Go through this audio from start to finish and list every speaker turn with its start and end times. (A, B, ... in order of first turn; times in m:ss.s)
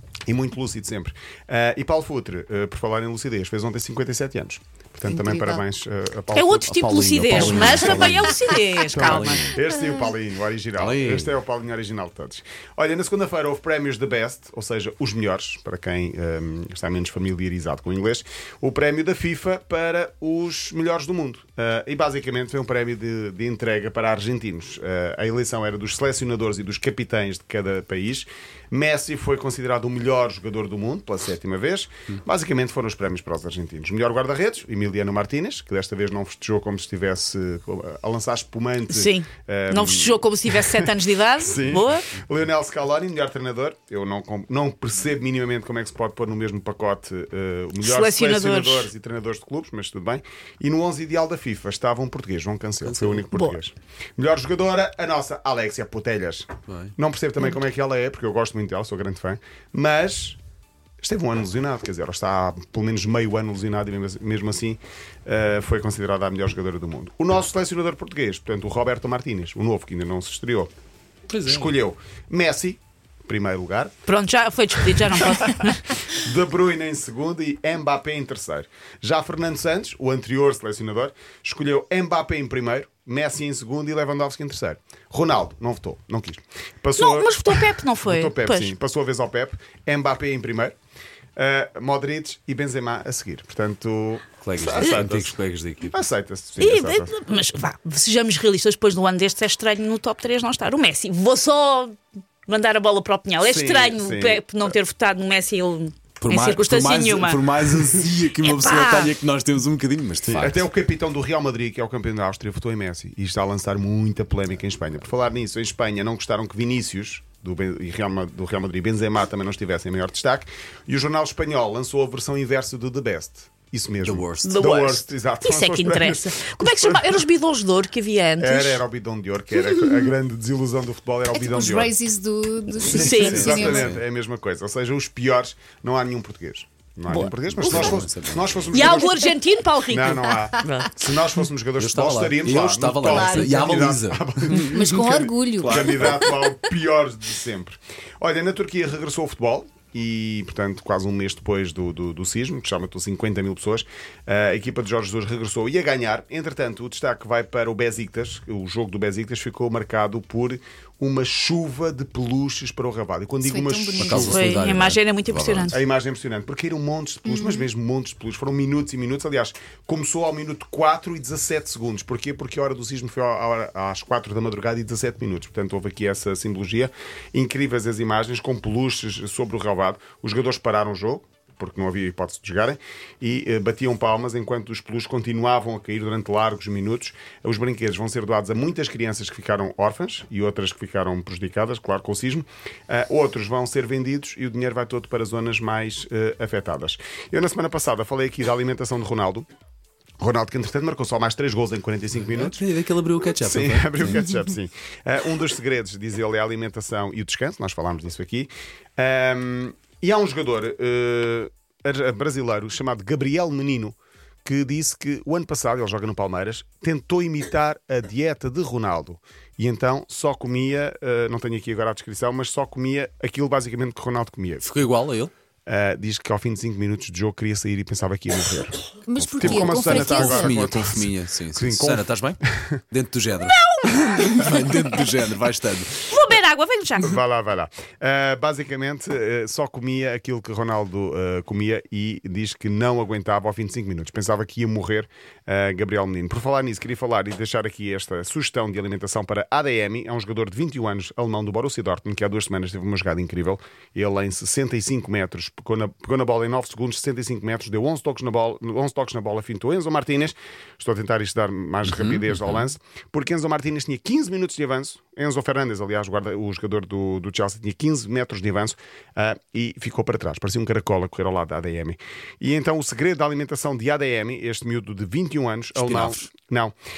0:00.3-1:00.4 A
0:05.1-0:05.6 B
0:06.3-0:09.5 C
0:07.3-0:08.3 D
0:08.8-0:09.6 D
0:10.8-0:11.4 D
0:38.9-0:42.1 C
0:47.8-0:48.9 C
0:52.8-0:53.3 D
0:56.7-0:57.0 D
1:01.0-1:10.7 A
1:11.3-1:11.8 D
1:11.4-1:14.0 A
1:14.1-1:16.0 C
1:14.8-1:30.8 A
1:27.0-1:28.7 C
1:31.4-1:37.1 A
1:34.4-1:36.0 D
1:36.6-1:47.5 C
1:43.4-1:44.8 A
1:46.2-1:50.7 D
1:48.3-1:49.2 C
1:50.3-2:07.2 A
2:04.0-2:04.7 D
2:04.4-2:08.8 C
2:08.4-2:12.0 A
2:11.3-2:13.9 B
2:12.8-2:19.3 A
2:12.9-2:13.9 C
2:13.4-2:14.0 D
2:17.1-2:17.4 C
2:17.5-2:19.0 D
2:18.7-2:20.9 C
2:18.9-2:19.3 B
2:19.9-2:44.4 A
2:21.8-2:24.7 D
2:23.0-2:23.9 B
2:24.6-2:26.2 B
2:25.6-2:26.3 D
2:43.4-2:44.5 B
2:44.0-2:45.7 D
2:44.2-2:45.8 C
2:45.7-3:19.5 A
2:47.3-2:47.7 B
3:20.2-3:22.6 A
3:22.2-3:24.2 D
3:23.4-3:44.7 A
3:44.6-3:45.3 D
3:45.7-3:48.8 A
3:49.1-3:50.8 B
3:49.2-3:56.1 D
3:49.4-3:52.8 A
3:53.4-3:55.1 C
3:56.1-3:57.1 C
3:57.0-4:36.8 A
4:21.8-4:22.6 D
4:35.8-4:36.3 D